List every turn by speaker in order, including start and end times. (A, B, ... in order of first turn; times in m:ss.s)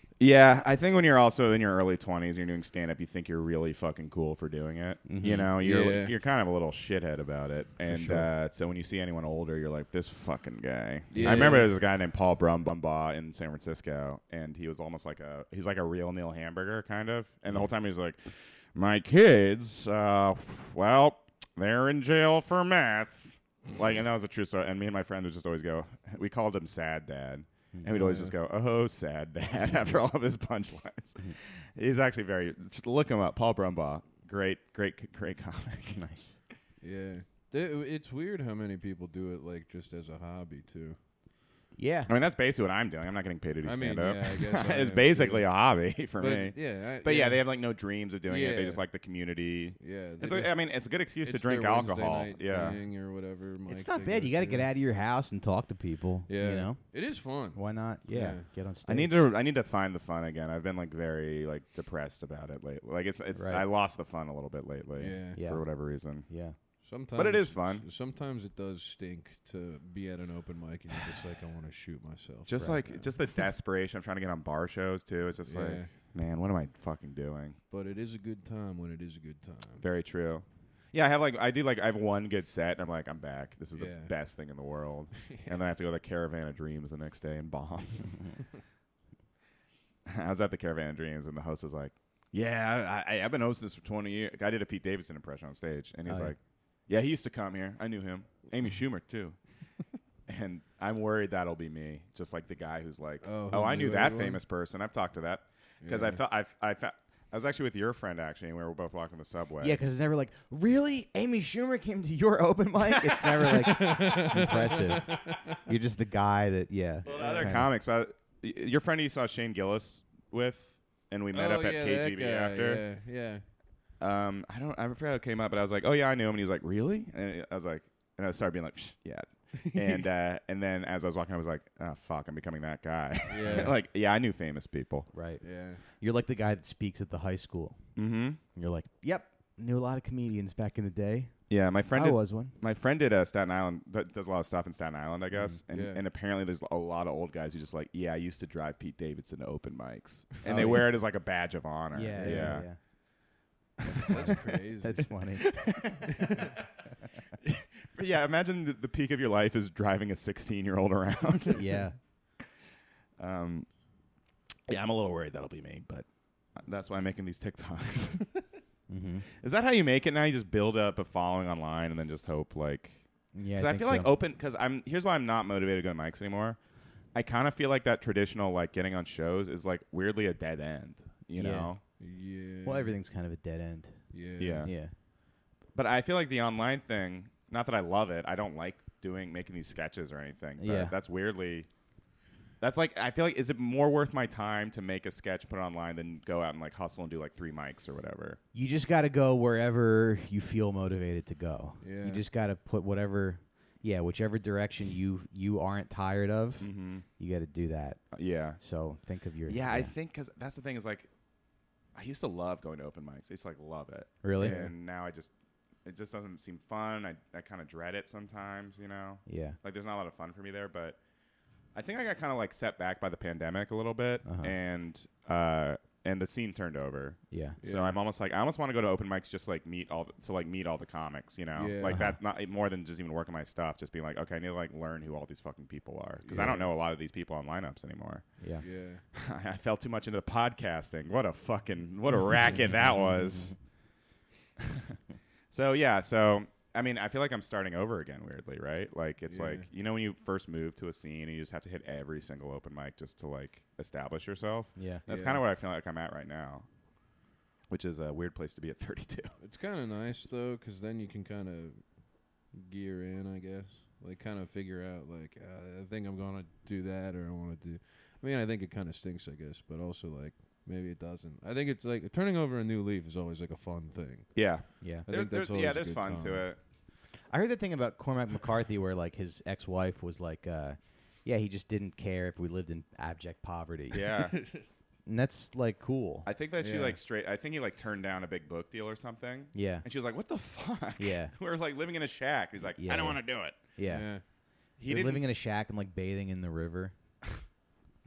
0:00.2-0:36.0 A
0:05.0-0:05.5 B
0:05.5-0:06.1 C
0:07.8-0:08.3 B
0:11.1-0:11.7 C
0:27.9-0:28.3 C
0:35.9-0:36.3 B
0:36.8-0:41.0 C
0:41.7-0:42.1 B
0:42.1-0:52.8 A
0:43.6-0:45.6 C
0:46.1-0:47.5 C
0:48.2-0:48.8 C
0:49.8-0:50.7 C
0:51.2-0:54.7 C
0:53.7-0:56.8 B
0:56.3-0:58.4 C
0:57.5-0:59.1 B
0:58.8-1:06.3 A
1:03.3-1:03.6 B
1:05.0-1:05.4 C
1:05.3-1:05.6 B
1:06.3-1:06.5 B
1:06.8-1:13.1 C
1:07.1-1:07.8 A
1:12.5-1:17.6 A
1:15.5-1:15.9 C
1:17.7-1:19.8 C
1:19.8-1:28.2 A
1:23.8-1:24.1 C
1:25.2-1:25.6 C
1:30.0-1:39.4 A
1:36.0-1:36.3 B
1:40.3-1:49.8 A
1:43.2-1:44.4 C
1:45.8-1:46.2 C
1:49.6-1:57.7 B
1:53.4-1:55.6 C
1:57.0-1:57.6 C
1:57.0-2:02.8 A
2:01.3-2:03.4 C
2:04.0-2:15.1 A
2:09.6-2:10.0 C
2:13.3-2:13.7 C
2:13.4-2:13.7 B
2:15.1-2:17.8 B
2:15.4-2:15.8 C
2:18.0-2:18.4 A
2:18.5-2:21.3 B
2:21.5-2:32.7 A
2:21.9-2:22.5 B
2:25.3-2:25.6 B
2:25.7-2:26.0 C
2:30.4-2:30.8 C
2:30.4-2:30.9 B
2:31.9-2:32.8 B
2:32.2-2:32.6 C
2:33.8-2:35.1 C
2:34.0-2:34.4 A
2:34.1-2:35.5 B
2:35.4-2:36.6 A
2:36.1-2:36.5 C
2:37.4-2:41.8 A
2:41.5-2:41.9 B
2:43.2-2:43.7 A
2:44.7-2:48.4 A
2:48.9-2:49.2 B
2:49.4-2:53.0 A
2:53.3-2:54.1 B
2:53.5-2:56.6 A
2:57.1-3:01.8 A
3:01.4-3:01.7 B
3:02.0-3:02.9 C
3:02.6-3:04.0 B
3:04.1-3:04.7 C
3:04.4-3:04.7 A
3:04.6-3:04.9 B
3:05.7-3:11.7 A
3:10.6-3:10.9 B
3:12.6-3:18.4 A
3:18.5-3:28.0 B
3:21.8-3:22.2 C
3:26.6-3:27.0 A
3:28.1-3:28.6 A
3:28.6-3:29.9 B
3:29.4-3:31.1 A
3:31.9-3:35.3 A
3:34.2-3:34.7 B
3:35.8-3:41.0 A
3:39.2-3:39.6 B
3:41.7-3:58.6 A
3:44.2-3:44.5 B
3:47.3-3:47.6 B
3:47.6-3:48.0 C
3:51.6-3:52.0 C
3:51.9-3:52.2 B
3:56.2-3:56.6 C
3:56.3-3:56.6 B
3:58.6-3:59.0 C
3:59.1-4:03.5 A
4:04.6-4:05.0 A
4:05.5-4:16.6 A
4:09.3-4:09.7 C
4:14.8-4:15.0 B
4:15.1-4:15.4 C
4:17.7-4:19.3 A
4:19.4-4:36.5 C
4:34.3-4:36.6 A
4:37.3-4:44.0 B
4:43.9-4:44.4 A
4:44.3-4:44.6 C
4:45.0-4:46.3 B
4:46.2-4:53.6 A
4:46.6-4:47.0 C
4:49.5-4:49.8 B
4:51.0-4:51.3 B
4:52.8-4:53.2 B
4:53.7-4:54.1 B
4:53.8-4:54.2 C
4:54.8-4:55.2 A
4:54.9-4:56.9 B